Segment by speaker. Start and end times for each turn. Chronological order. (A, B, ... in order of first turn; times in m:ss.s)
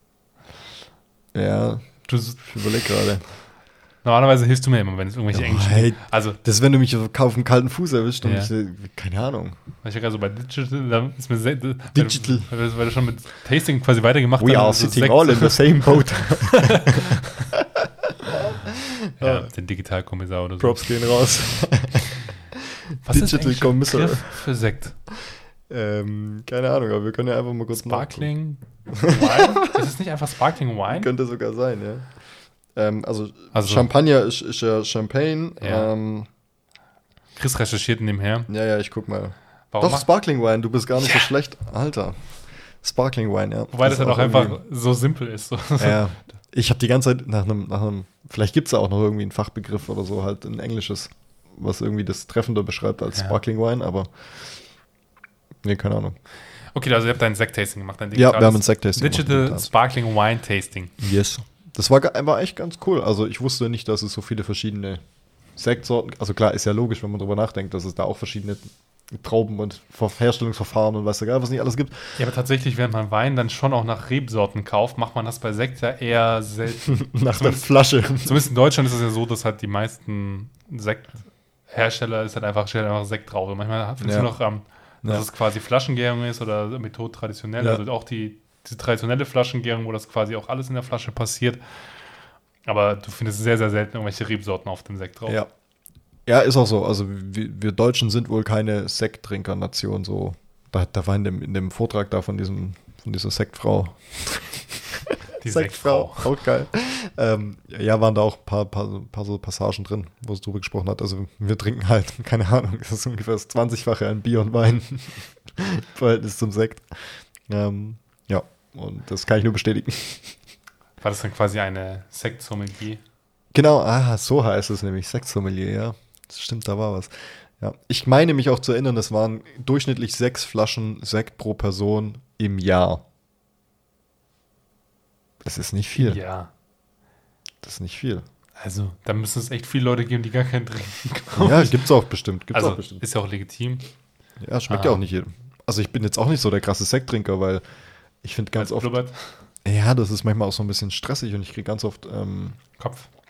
0:01.3-0:03.2 A
0:02.1-0:02.4 B
0:04.0-0:06.4 B
0:05.3-0:09.6 A
0:08.2-0:08.5 B
0:09.8-0:17.5 B
0:12.0-0:12.5 A
0:14.4-0:19.5 A
0:19.2-0:20.9 B
0:20.6-0:24.3 A
0:23.1-0:25.0 B
0:25.7-0:28.3 A
0:27.7-0:31.1 B
0:28.9-0:29.9 A
0:30.9-0:32.1 A
0:32.8-0:36.3 A
0:33.5-0:33.9 B
0:35.6-0:35.9 B
0:37.4-0:38.5 B
0:38.5-0:42.2 A
0:39.7-0:40.1 B
0:42.8-0:44.6 A
0:43.7-0:46.0 B
0:45.8-0:54.1 A
0:55.6-0:56.2 A
0:56.7-1:00.9 B
0:58.1-0:59.7 A
1:01.0-1:05.0 A
1:05.6-1:12.2 A
1:12.2-1:31.6 B
1:16.9-1:18.4 A
1:24.0-1:24.3 A
1:32.7-1:35.4 B
1:36.3-1:56.9 A
1:45.4-1:46.3 B
1:57.5-2:00.4 A
2:01.0-2:03.0 B
2:03.5-2:13.0 A
2:15.4-2:16.2 A
2:16.0-2:16.5 B
2:17.6-2:18.2 A
2:18.6-2:21.8 B
2:21.3-2:23.0 A
2:22.5-2:23.8 B
2:24.4-2:27.6 A
2:24.7-2:25.0 B
2:28.2-2:29.0 A
2:28.6-2:29.4 B
2:29.6-2:32.6 A
2:32.8-2:33.1 B